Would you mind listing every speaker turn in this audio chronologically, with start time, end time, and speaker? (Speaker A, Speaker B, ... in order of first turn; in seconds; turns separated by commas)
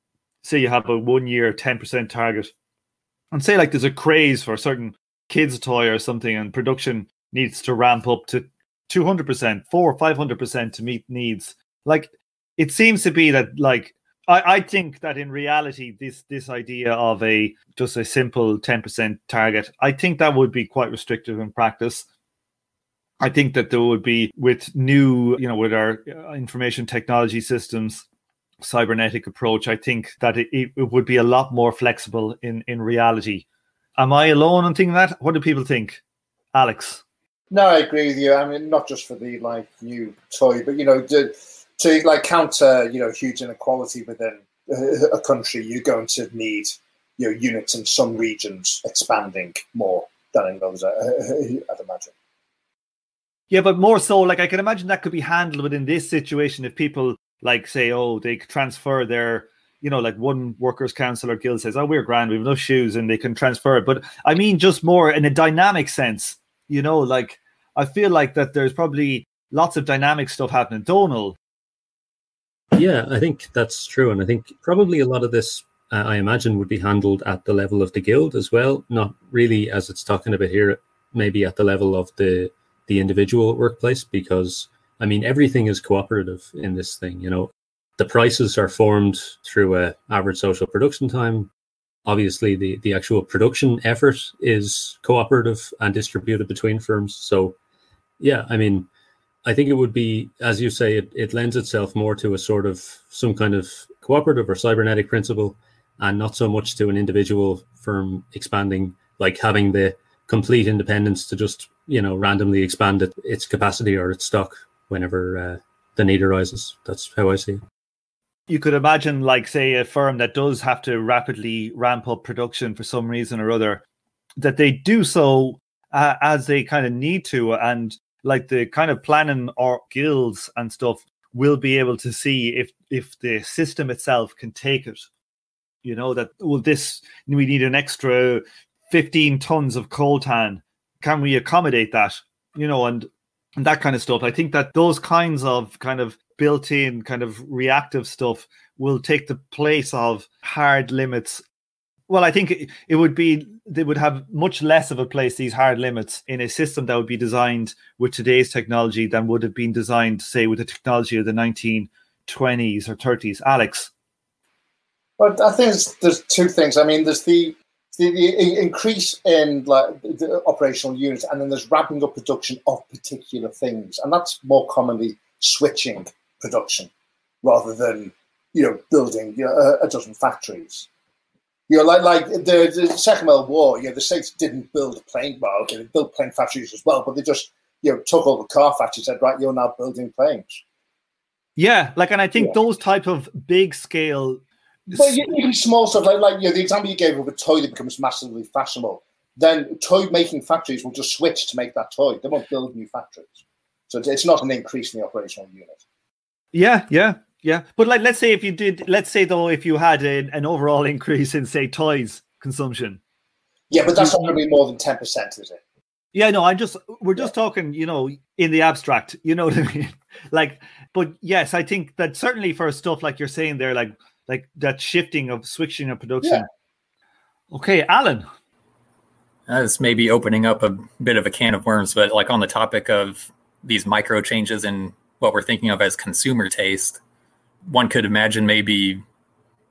Speaker A: 0.4-2.5, Speaker A: 3.3-22.1, Speaker A: 23.2-28.0, Speaker A: 28.6-33.4, Speaker A: 34.0-36.0, Speaker A: 36.5-37.0, Speaker B: 37.5-52.1, Speaker A: 53.5-71.4, Speaker C: 72.7-91.5, Speaker C: 92.0-97.5, Speaker C: 98.2-98.9, Speaker C: 99.4-117.6, Speaker A: 118.5-123.8, Speaker A: 124.4-135.1, Speaker A: 135.8-151.4, Speaker A: 152.1-163.9, Speaker B: 165.2-176.9, Speaker B: 177.4-180.9, Speaker B: 181.7-190.6, Speaker A: 191.6-195.2, Speaker B: 194.9-203.3, Speaker B: 203.9-205.8, Speaker A: 206.5-213.0, Speaker B: 213.7-215.6, Speaker A: 213.9-214.3, Speaker A: 216.1-226.4, Speaker A: 227.5-228.3, Speaker D: 229.5-237.0, Speaker D: 237.7-239.0